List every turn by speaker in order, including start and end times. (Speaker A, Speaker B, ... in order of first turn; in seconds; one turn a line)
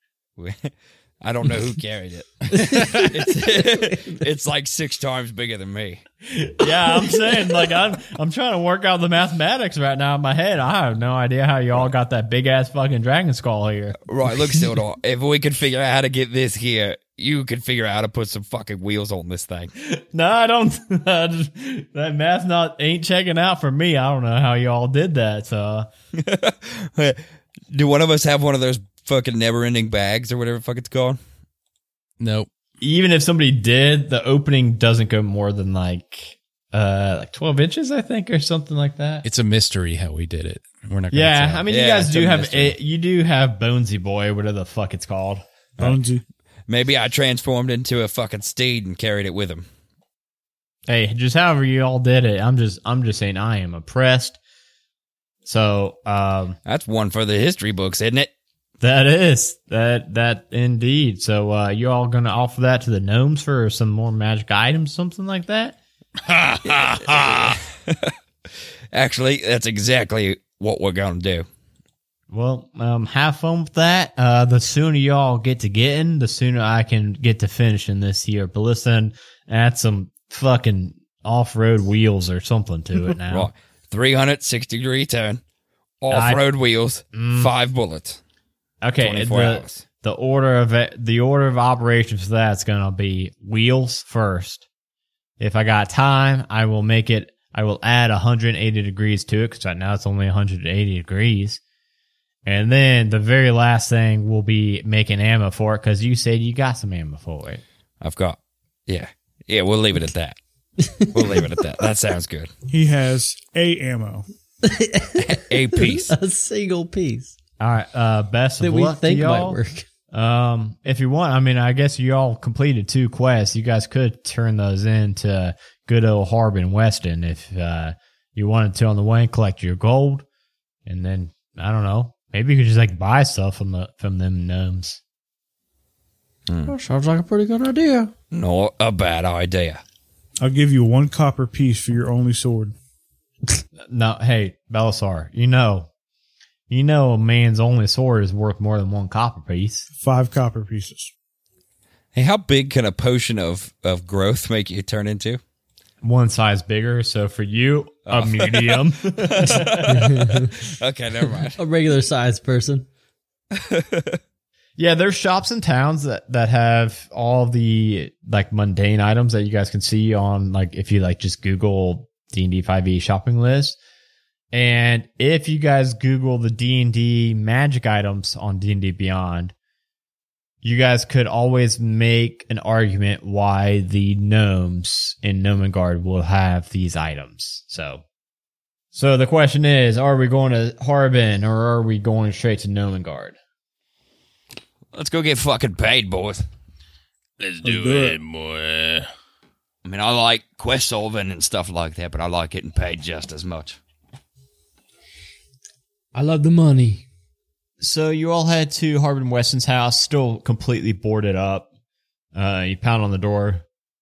Speaker A: 0.4-6.0
Speaker B: 2.6-3.2
Speaker C: 6.2-14.0
Speaker A: 14.0-19.7
Speaker C: 19.8-25.9
Speaker A: 26.1-31.2
Speaker D: 32.2-32.5
Speaker C: 32.8-39.3
Speaker D: 39.2-41.7
Speaker C: 41.1-45.5
Speaker A: 41.7-42.8
Speaker E: 45.8-46.2
Speaker A: 46.7-49.7
Speaker C: 50.9-54.4
Speaker C: 55.5-56.6
Speaker A: 56.7-58.3
Speaker C: 58.8-65.8
Speaker F: 66.2-67.6
Speaker A: 66.6-68.1
Speaker A: 68.9-71.5
Speaker C: 72.3-83.5
Speaker A: 83.3-85.4
Speaker A: 86.0-88.2
Speaker C: 86.1-86.4
Speaker C: 87.1-87.5
Speaker C: 88.8-94.7
Speaker A: 89.0-89.8
Speaker C: 95.4-101.6
Speaker C: 102.5-107.6
Speaker A: 108.0-110.4
Speaker B: 110.8-111.5
Speaker A: 111.1-112.5
Speaker E: 112.7-114.3
Speaker B: 114.6-117.4
Speaker A: 115.2-116.2
Speaker C: 117.6-119.6
Speaker B: 118.6-119.9
Speaker C: 120.1-130.2
Speaker C: 130.9-135.0
Speaker A: 136.5-136.7
Speaker B: 136.7-138.1
Speaker A: 138.3-139.8
Speaker E: 140.4-142.8
Speaker C: 143.9-145.9
Speaker C: 146.7-149.9
Speaker E: 150.0-151.1
Speaker A: 152.1-155.4
Speaker C: 156.0-160.1
Speaker A: 158.1-161.6
Speaker B: 159.9-160.5
Speaker B: 161.6-162.9
Speaker A: 163.5-164.2
Speaker C: 164.8-173.8
Speaker C: 174.5-179.5
Speaker C: 180.6-188.0
Speaker C: 188.9-193.4
Speaker A: 194.9-196.5
Speaker F: 197.4-199.1
Speaker E: 197.6-198.2
Speaker A: 199.8-203.8
Speaker B: 206.1-207.1
Speaker C: 207.8-211.7
Speaker C: 212.3-213.6